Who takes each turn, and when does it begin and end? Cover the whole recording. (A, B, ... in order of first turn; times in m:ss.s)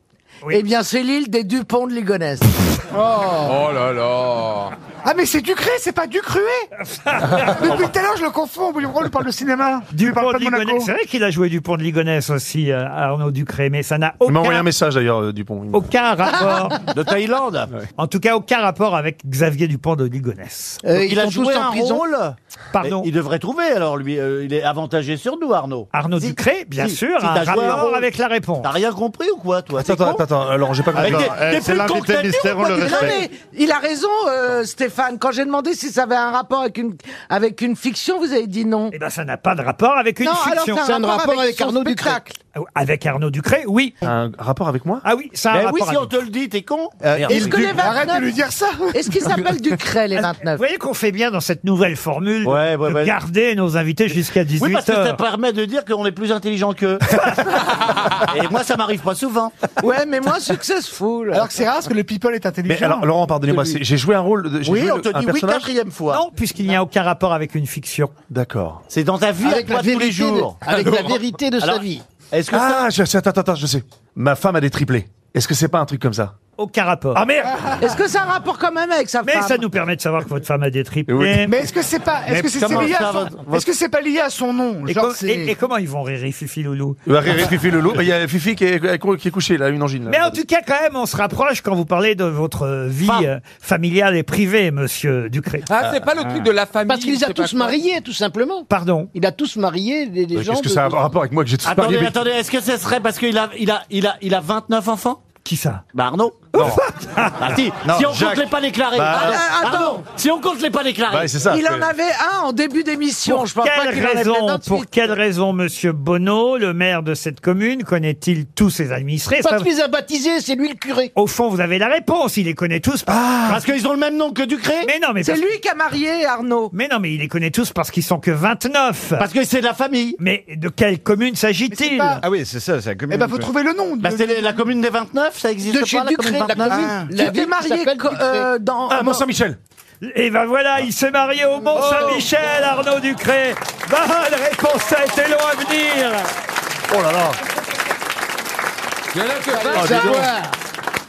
0:00.5-0:02.8 A
0:03.0-0:03.5 B
0:03.2-0:04.7 C
0:05.0-0:06.7 B
0:06.9-0:07.8 D
0:07.2-0:10.9 B
0:09.9-0:14.7 D
0:14.2-0:15.9 E
0:15.7-0:16.8 D
0:16.9-0:17.7 F
0:18.0-0:20.8 D
0:20.9-0:28.1 F
0:20.9-0:22.0 A
0:22.7-0:23.1 D
0:25.9-0:28.7 D
0:28.6-0:30.3 F
0:29.8-0:31.4 E
0:30.9-0:33.2 G
0:31.0-0:33.2 F
0:32.6-0:38.9 A
0:38.9-0:40.8 D
0:40.2-0:42.3 A
0:40.8-0:42.2 H
0:42.5-0:44.0 D
0:44.0-0:45.0 E
0:45.0-0:46.1 D
0:45.5-0:47.9 F
0:47.0-0:47.7 G
0:47.3-0:48.3 A
0:47.3-0:49.6 B
0:48.9-0:50.6 A
0:50.1-0:55.2 D
0:52.4-0:53.2 F
0:54.6-0:57.2 F
0:58.2-0:59.8 F
0:59.8-1:01.5 A
1:01.3-1:03.5 B
1:02.7-1:05.7 E
1:04.6-1:06.2 F
1:06.1-1:08.1 D
1:08.3-1:08.8 E
1:08.9-1:10.7 F
1:09.4-1:12.0 H
1:10.7-1:11.1 E
1:11.6-1:12.9 F
1:12.5-1:16.3 E
1:16.6-1:17.2 D
1:17.1-1:17.9 E
1:17.8-1:19.6 A
1:19.2-1:21.6 D
1:21.1-1:21.5 E
1:21.4-1:25.5 B
1:22.3-1:23.7 F
1:24.9-1:27.0 D
1:27.0-1:30.4 E
1:30.1-1:35.7 D
1:35.6-1:37.8 C
1:36.9-1:41.0 H
1:38.7-1:39.1 D
1:40.3-1:42.2 E
1:41.6-1:45.2 F
1:45.4-1:45.8 D
1:45.9-1:46.6 F
1:46.5-1:47.6 D
1:46.5-1:46.8 E
1:47.4-1:51.4 F
1:47.8-1:49.4 G
1:49.1-1:50.1 A
1:51.1-1:51.9 E
1:51.4-1:54.9 A
1:53.2-1:59.7 D
1:59.4-2:01.1 H
2:01.1-2:03.6 D
2:03.4-2:04.9 F
2:04.8-2:05.4 D
2:05.2-2:06.7 A
2:06.7-2:09.3 D
2:09.2-2:10.2 F
2:10.2-2:12.2 D
2:11.7-2:12.2 B
2:12.2-2:13.5 G
2:13.1-2:14.6 B
2:14.0-2:17.0 F
2:15.7-2:18.5 H
2:17.0-2:19.2 A
2:18.9-2:19.6 E
2:20.0-2:26.3 D
2:21.9-2:22.2 B
2:26.9-2:27.4 E
2:29.1-2:30.3 C
2:29.7-2:30.3 B
2:29.7-2:30.2 E
2:29.9-2:30.2 D